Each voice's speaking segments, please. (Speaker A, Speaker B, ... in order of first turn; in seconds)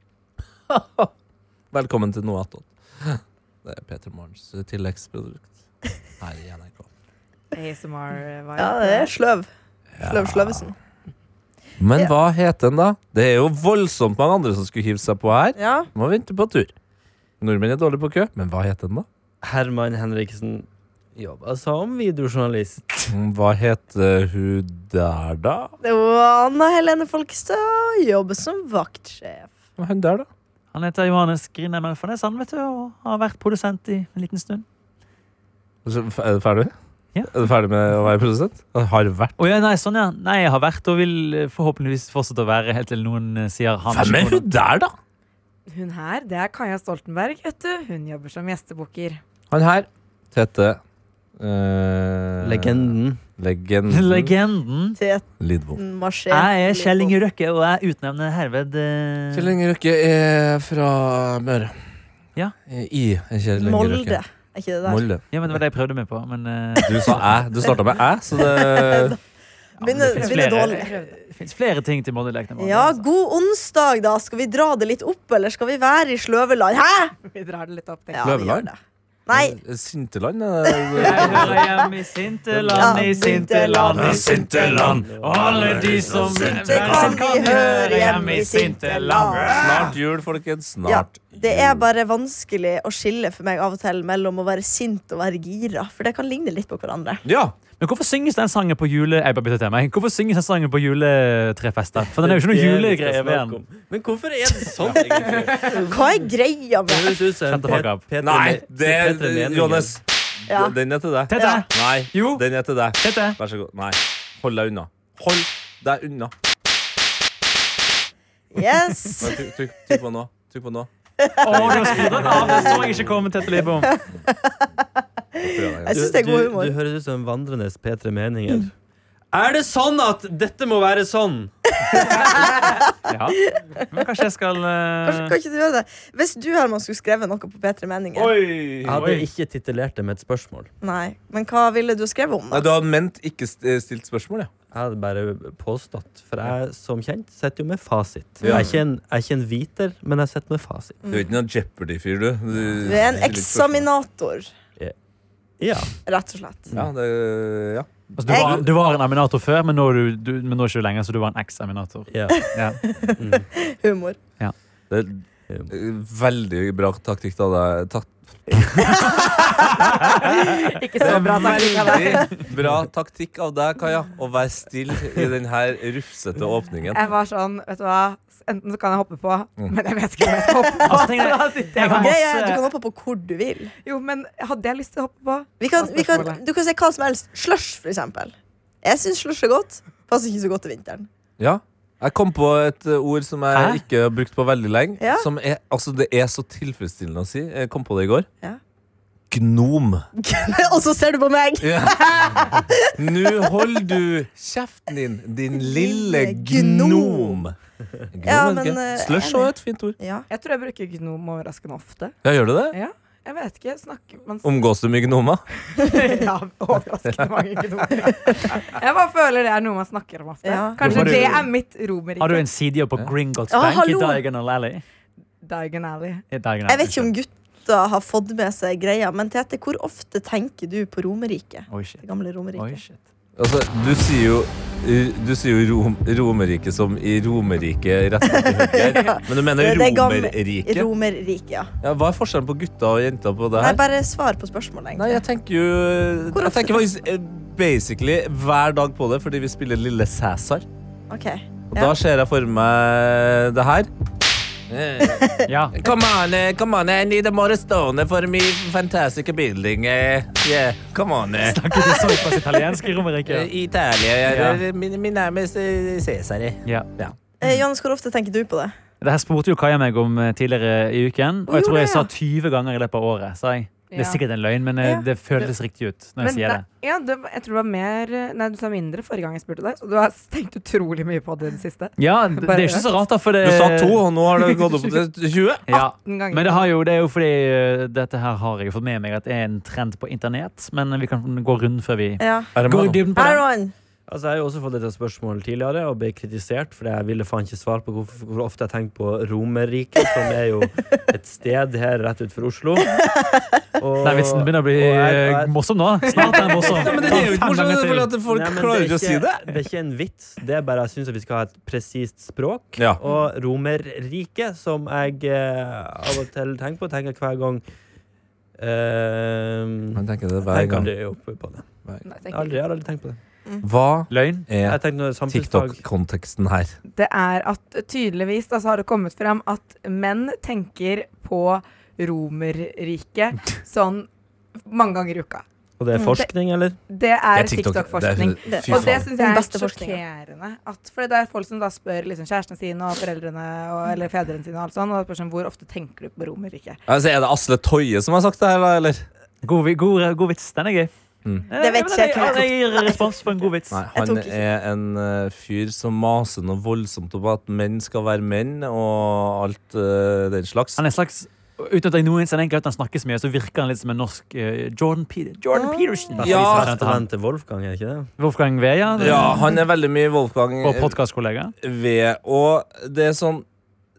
Speaker A: 0.7-1.1, 1.7-5.5, 6.2-6.9, 10.0-10.7, 11.8-16.7, 17.4-19.1, 23.1-25.7, 29.8-30.3, 35.9-39.4, 43.9-45.0, 49.5-50.8, 51.4-54.3, 55.4-55.8, 59.3-61.8, 62.7-64.2, 64.8-65.2, 66.8-69.2, 78.2-78.7, 79.3-81.7, 82.5-83.2, 83.9-87.2, 89.4-91.9, 97.2-97.6, 108.2-116.3, 119.2-120.9, 121.5-122.0, 125.4-126.1, 138.2-139.0, 142.5-144.5, 151.1-153.9, 156.8-158.6, 164.9-169.1, 171.0-177.0, 191.4-198.3, 199.3-200.1, 201.6-207.6, 208.1-210.0, 212.2-212.8, 214.4-215.4, 233.4-240.9, 241.8-243.8, 244.9-250.7, 251.7-253.9, 254.7-261.6, 263.3-267.2, 283.4-285.6, 292.6-293.0, 306.7-309.6, 319.9-320.9, 323.6-326.8, 337.4-339.1, 346.9-349.1, 353.7-360.8, 366.2-366.8, 369.0-371.0, 371.6-373.4
Speaker B: 7.5-9.1, 45.7-49.2, 70.2-71.2, 77.2-78.3, 170.3-172.4, 176.9-182.2, 183.8-186.4, 210.3-212.2, 212.7-214.6, 215.7-222.5, 225.4-226.2, 273.9-274.2, 276.2-282.9, 285.7-286.7, 306.2-306.9, 322.1-322.6, 326.9-334.1, 334.6-335.4, 336.9-346.8
Speaker C: 8.6-9.5, 10.0-10.7, 15.6-15.9, 25.8-29.6, 55.0-57.2, 63.6-65.1, 68.5-69.2, 69.8-71.0, 72.6-77.2, 78.1-79.6, 80.7-81.7, 82.8-84.8, 86.4-89.9, 90.8-97.2, 105.7-107.3, 110.5-110.8, 111.3-111.7, 118.5-120.0, 121.2-122.7, 123.9-124.7, 125.4-126.8, 131.8-132.8, 135.1-138.4, 140.8-142.7, 148.4-148.8, 151.0-151.3, 152.8-154.5, 156.0-156.7, 158.3-158.7, 162.8-164.2, 168.9-169.2, 180.4-181.1, 181.8-183.7, 185.6-191.1, 195.0-195.3, 200.2-203.2, 205.6-207.5, 208.2-210.3, 220.4-221.4, 223.5-224.2, 226.7-232.8, 238.2-241.7, 243.6-245.2, 246.3-246.8, 251.1-251.9, 261.9-262.4, 267.4-268.8, 271.5-272.1, 292.2-292.5, 293.1-293.7, 303.0-303.5, 338.5-340.0, 351.5-353.1, 353.9-354.4, 365.5-366.2
Speaker D: 19.4-22.8, 52.4-53.2, 84.8-85.8, 102.1-106.2, 106.9-110.0, 125.9-128.7, 129.3-131.5, 138.8-140.7, 144.7-151.0, 155.6-156.0, 162.1-162.4, 163.2-163.5, 294.1-303.0, 303.8-305.5, 306.1-306.4, 307.0-307.4, 308.3-317.6, 318.6-321.7, 322.3-323.2, 324.6-325.8, 335.8-336.8, 366.2-368.1
Speaker E: 30.7-34.6, 39.4-44.5, 53.9-55.0, 56.3-59.5, 65.3-67.5, 69.8-73.0, 81.0-89.9, 97.8-103.6, 107.5-108.1, 111.3-112.4, 113.0-113.4, 121.4-123.9, 133.1-135.4, 139.0-139.3, 158.2-162.8, 180.9-182.6, 193.5-193.8, 220.8-221.4, 222.2-224.8, 226.3-227.1, 231.7-232.0, 232.6-233.0, 255.5-255.8, 261.4-263.5, 264.3-264.6, 269.0-276.6, 282.0-284.6, 285.7-293.4, 304.0-308.1, 324.1-324.5, 349.4-350.9, 351.5-353.8, 360.8-367.1, 368.2-369.4, 370.6-371.5